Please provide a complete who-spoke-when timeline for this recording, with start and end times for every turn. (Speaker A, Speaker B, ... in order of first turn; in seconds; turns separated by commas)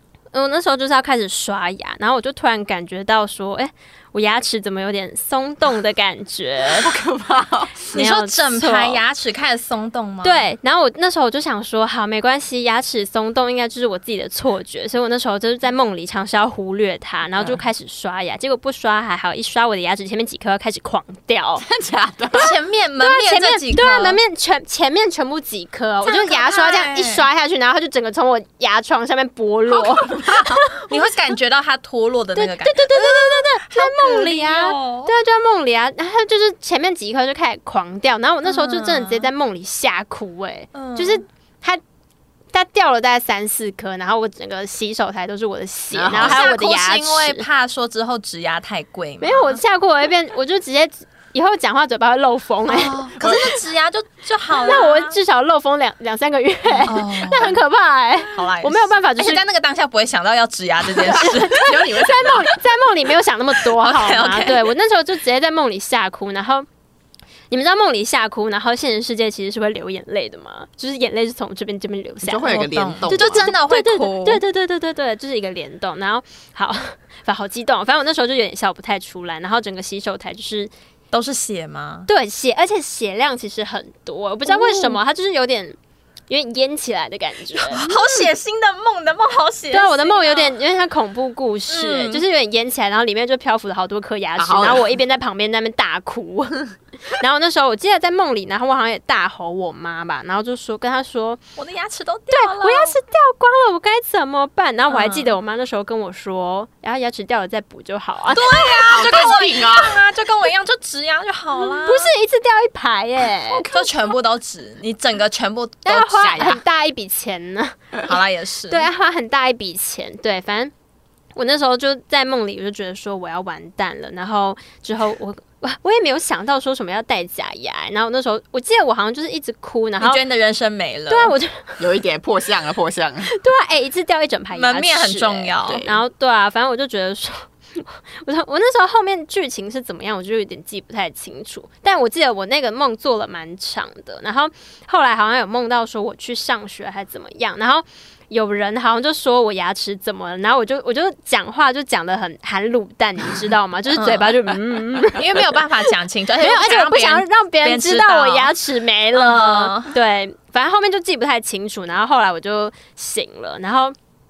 Speaker A: 0.3-6.9, Speaker B: 6.7-7.9, Speaker A: 7.9-9.0, Speaker C: 7.9-10.5, Speaker A: 10.2-21.7, Speaker B: 21.6-22.5, Speaker C: 22.4-24.2, Speaker A: 23.0-31.0, Speaker C: 26.0-27.2, Speaker B: 29.7-30.6, Speaker C: 30.8-35.1, Speaker A: 32.4-41.8, Speaker C: 38.4-39.3, Speaker C: 40.7-41.2, Speaker A: 42.5-47.5, Speaker B: 45.9-46.5, Speaker C: 46.1-49.6, Speaker A: 49.2-53.0, Speaker C: 52.7-55.2, Speaker B: 53.2-53.5, Speaker A: 54.5-59.4, Speaker C: 56.9-57.6, Speaker C: 58.3-61.7, Speaker B: 61.0-62.5, Speaker A: 61.1-66.7, Speaker C: 63.7-64.7, Speaker A: 67.5-72.5, Speaker B: 72.2-73.5, Speaker C: 72.5-74.4, Speaker A: 73.1-80.7, Speaker C: 81.1-82.1, Speaker A: 82.1-85.8, Speaker C: 84.5-85.0, Speaker A: 86.3-88.2, Speaker C: 87.7-90.6, Speaker A: 89.7-101.4, Speaker C: 91.7-92.2, Speaker B: 94.4-94.9, Speaker C: 101.6-103.0, Speaker A: 102.3-109.3, Speaker C: 104.9-105.3, Speaker C: 108.3-112.1, Speaker B: 108.5-110.1, Speaker A: 111.6-113.7, Speaker B: 113.5-114.1, Speaker C: 113.7-116.4, Speaker A: 115.8-118.2, Speaker B: 116.0-116.6, Speaker C: 118.1-118.9, Speaker A: 118.7-120.7, Speaker A: 121.3-130.2, Speaker C: 130.0-131.4, Speaker A: 131.1-131.9, Speaker B: 131.8-133.3, Speaker A: 133.3-155.7, Speaker C: 134.5-135.8, Speaker B: 135.7-136.0, Speaker C: 153.9-154.5, Speaker C: 155.1-158.5, Speaker A: 156.4-163.9, Speaker C: 159.1-159.9